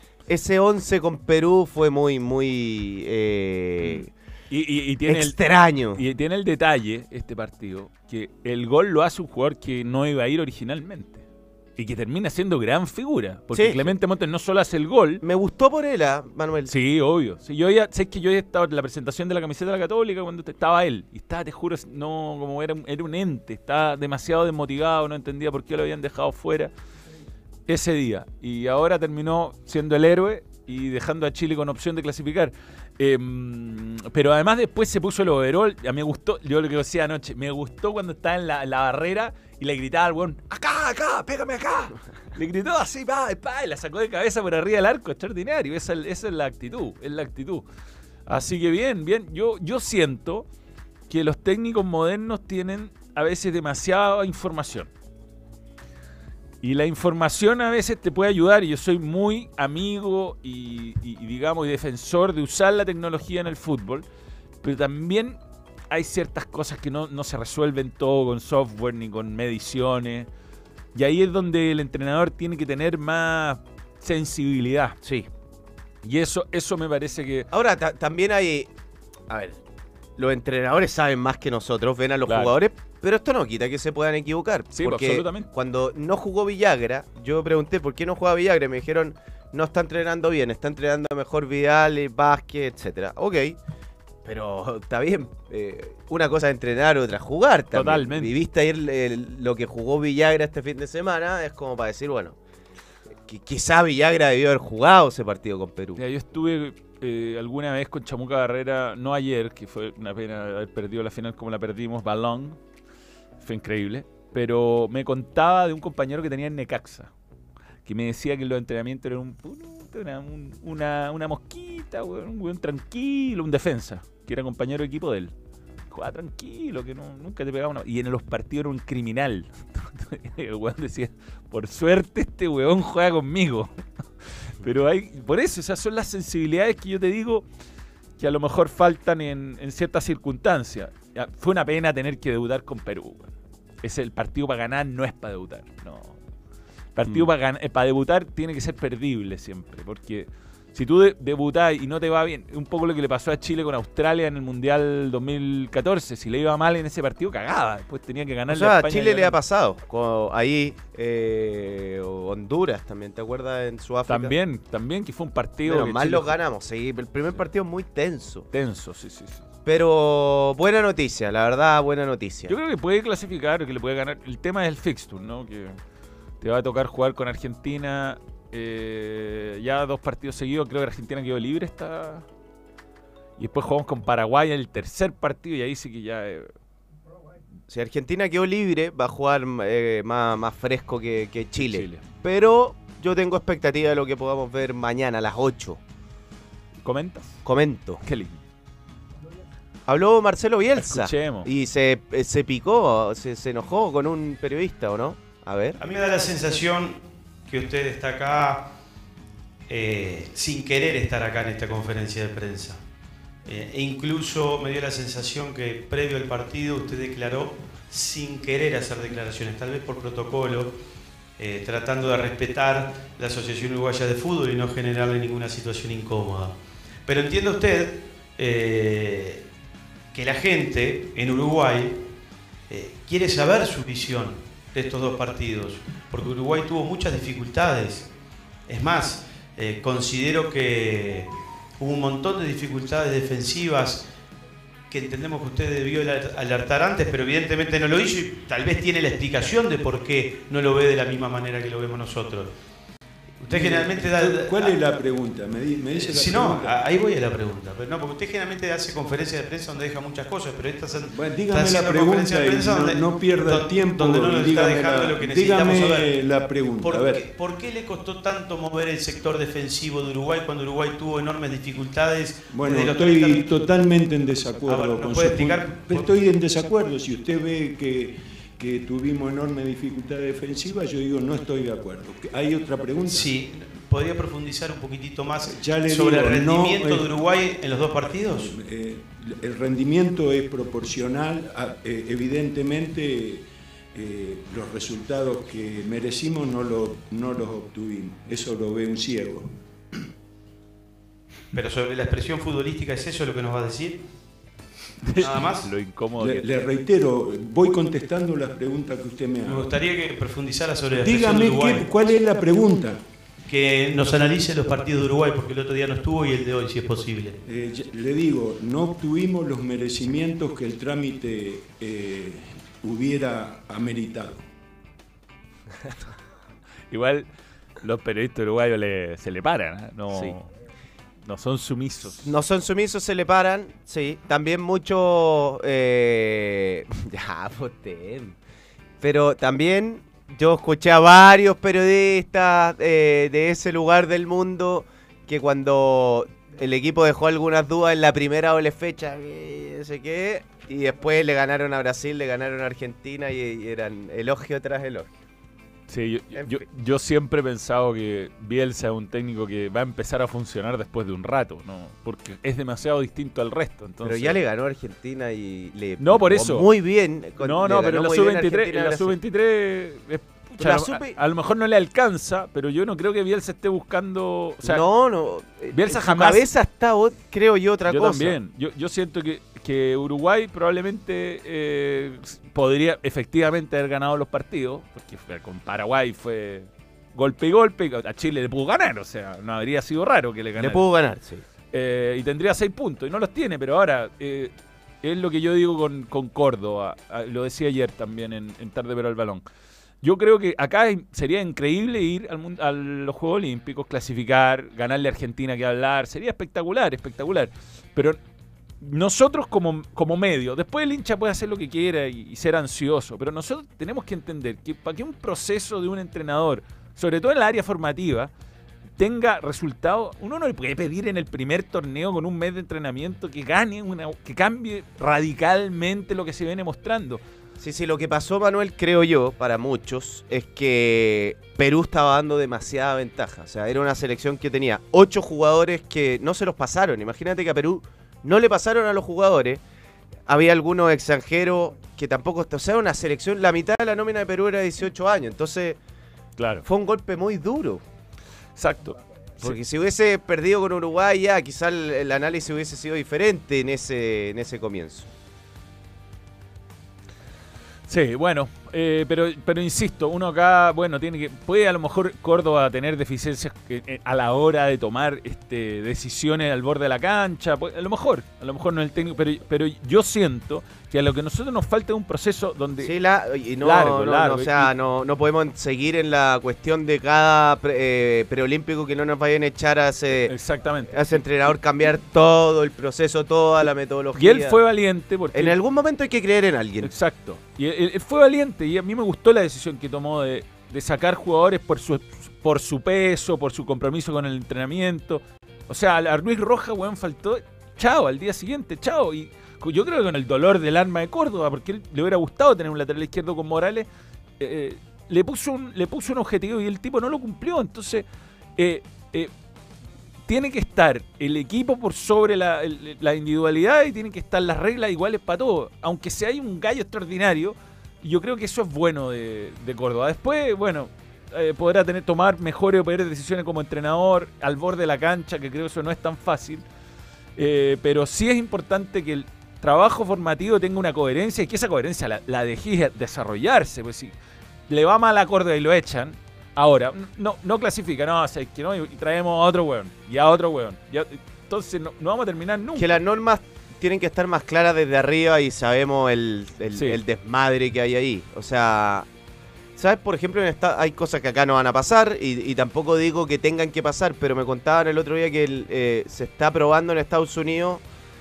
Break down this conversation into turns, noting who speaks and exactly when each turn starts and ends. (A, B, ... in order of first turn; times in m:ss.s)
0:00.3-0:04.1 A
0:03.8-0:05.4 B
0:05.0-0:06.0 A
0:05.9-0:11.3 B
0:11.8-0:15.2 B
0:13.5-0:14.0 A
0:15.2-0:16.7 A
0:16.7-0:26.7 B
0:27.7-0:47.6 B
0:48.3-0:50.5 B
0:51.1-0:54.9 B
0:56.6-1:04.0 B
1:04.6-1:05.4 B
1:05.9-1:10.3 B
1:11.0-1:15.0 B
1:15.0-1:15.3 A
1:16.0-1:17.5 B
1:17.5-1:18.7 A
1:19.3-1:19.6 A
1:20.2-1:33.6 A
1:22.3-1:22.5 B
1:24.7-1:25.5 B
1:34.2-1:42.4 A
1:37.7-1:38.3 B
1:43.2-1:46.0 A
1:46.0-1:52.6 B
1:53.4-1:57.1 B
1:57.8-2:05.3 B
2:05.9-2:13.8 B
2:14.4-2:17.5 B
2:18.2-2:26.2 B
2:27.0-2:39.4 B
2:27.0-2:27.3 A
2:38.5-2:44.4 A
2:44.1-2:46.4 B
2:45.6-2:48.5 A
2:48.5-2:49.5 B
2:49.7-2:52.5 A
2:52.5-2:55.8 B
2:56.4-3:02.3 B
3:03.4-3:06.5 B
3:07.7-3:15.8 A
3:11.6-3:12.0 B
3:16.8-3:17.4 B
3:17.4-3:18.0 A
3:18.0-3:18.4 B
3:19.9-3:25.8 A
3:20.8-3:21.5 B
3:25.8-3:28.7 C
3:29.7-3:32.8 C
3:33.4-3:40.8 C
3:41.4-3:49.5 C
3:50.1-3:52.0 C
3:52.7-3:58.1 C
3:58.7-4:04.1 C
4:04.9-4:12.5 C
4:13.4-4:14.8 C
4:13.4-4:16.8 D
4:15.9-4:33.8 C
4:21.1-4:27.3 D
4:32.5-4:43.4 D
4:34.7-4:36.7 C
4:43.0-4:48.5 C
4:45.5-4:47.2 D
4:48.3-4:59.6 D
5:01.5-5:04.0 C
5:05.1-5:06.7 B
5:05.2-5:05.7 C
5:06.2-5:09.7 D
5:09.4-5:11.9 C
5:10.9-5:13.0 D
5:13.5-5:17.4 C
5:17.4-5:24.4 D
5:26.9-5:27.3 B
5:27.8-5:30.5 B
5:31.2-5:32.3 B
5:32.2-5:38.4 A
5:39.0-5:55.2 A
5:55.9-6:04.4 B
6:04.0-6:09.2 A
6:06.0-6:06.7 B
6:07.4-6:14.8 B
6:10.6-6:11.2 A
6:14.6-6:18.4 A
6:15.7-6:16.5 B
6:17.9-6:30.8 B
6:30.6-6:31.4 A
6:31.7-6:39.4 B
6:40.0-6:48.2 B
6:48.8-6:58.3 B
6:59.0-7:07.2 B
7:07.6-7:19.6 A
7:20.3-7:25.8 A
7:26.4-7:26.6 B
7:26.6-7:27.8 A
7:28.6-7:29.6 B
7:29.4-7:35.1 A
7:37.9-7:52.9 B
7:52.8-8:00.3 A
7:53.6-7:54.7 B
8:00.2-8:01.2 B
8:00.9-8:04.6 A
8:04.2-8:05.6 B
8:05.3-8:06.9 A
8:06.8-8:23.9 B
8:24.4-8:28.0 B
8:28.6-8:29.3 B
8:30.3-8:46.6 B
8:47.4-8:54.1 B
8:54.7-9:03.0 B
9:02.8-9:09.1 A
9:06.8-9:07.0 B
9:09.8-9:17.8 A